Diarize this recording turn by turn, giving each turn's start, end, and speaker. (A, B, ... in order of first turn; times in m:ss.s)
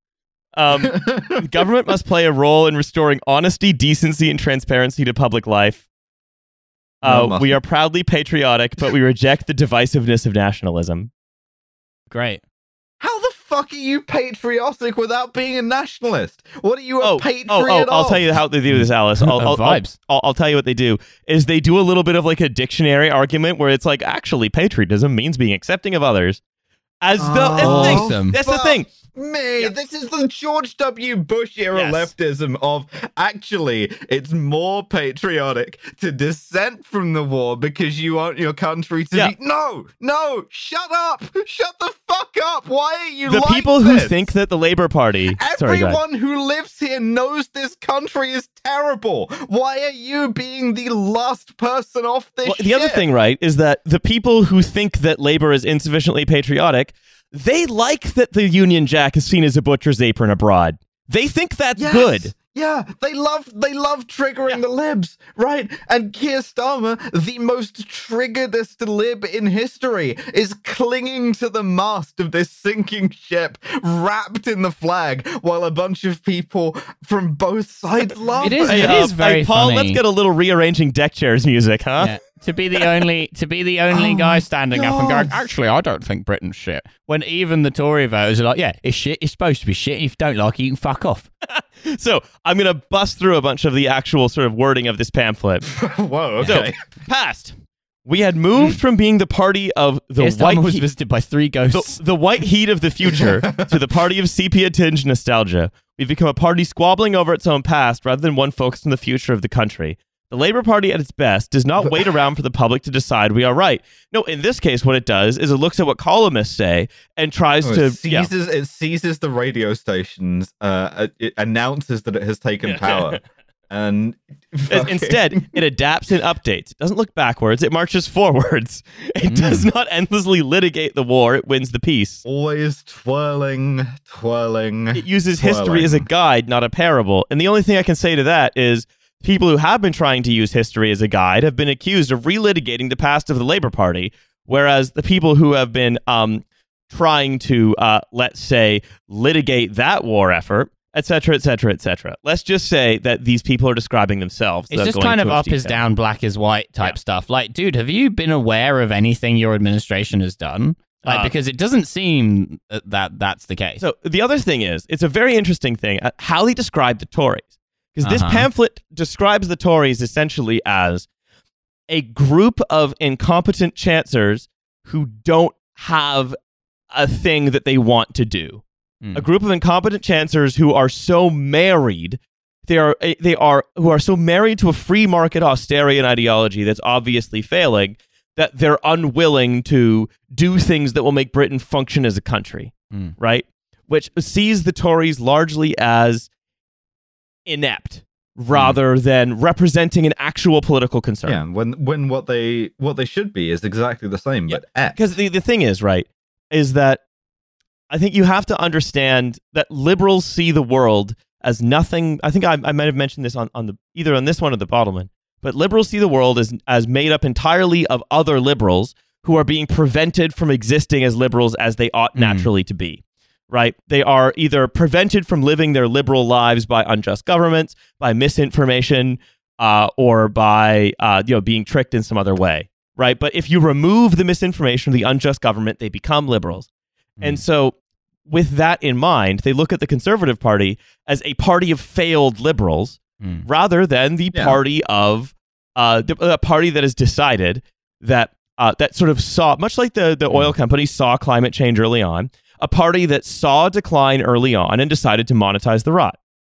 0:00.6-0:05.8 A
0:00.9-0:01.4 B
0:07.0-0:11.1 A
0:07.0-0:07.5 B
0:12.1-0:12.4 C
0:13.0-0:18.3 B
0:17.0-0:26.4 A
0:18.7-0:20.0 C
0:27.0-0:28.9 A
0:27.2-0:44.3 B
0:27.6-0:28.4 C
0:31.7-0:32.1 C
0:43.3-0:46.0 A
0:45.4-0:53.1 B
0:52.4-1:02.3 A
1:01.8-1:19.0 B
1:18.4-1:20.0 C
1:18.6-1:22.2 A
1:22.0-1:31.3 C
1:23.9-1:25.5 B
1:31.4-1:35.7 A
1:35.7-1:36.8 B
1:36.4-1:37.5 A
1:38.0-1:40.9 A
1:40.2-1:42.0 C
1:41.7-1:58.3 A
1:43.1-1:43.8 B
1:51.8-1:52.1 B
1:57.6-2:03.2 B
2:02.6-2:03.2 A
2:03.7-2:05.6 B
2:04.7-2:12.2 A
2:09.2-2:09.7 C
2:12.2-2:16.1 B
2:14.9-2:35.8 A
2:34.7-2:43.8 C
2:41.0-2:41.3 A
2:43.8-2:51.1 A
2:48.0-2:48.5 C
2:51.9-2:56.4 A
2:56.9-2:58.6 A
2:59.1-3:16.3 A
3:17.5-3:21.4 A
3:21.3-3:25.0 B
3:24.5-3:27.0 A
3:27.9-3:56.7 A
3:42.2-3:42.5 C
3:57.2-3:57.8 A
3:58.3-4:16.2 A
4:03.2-4:03.5 C
4:04.3-4:04.6 B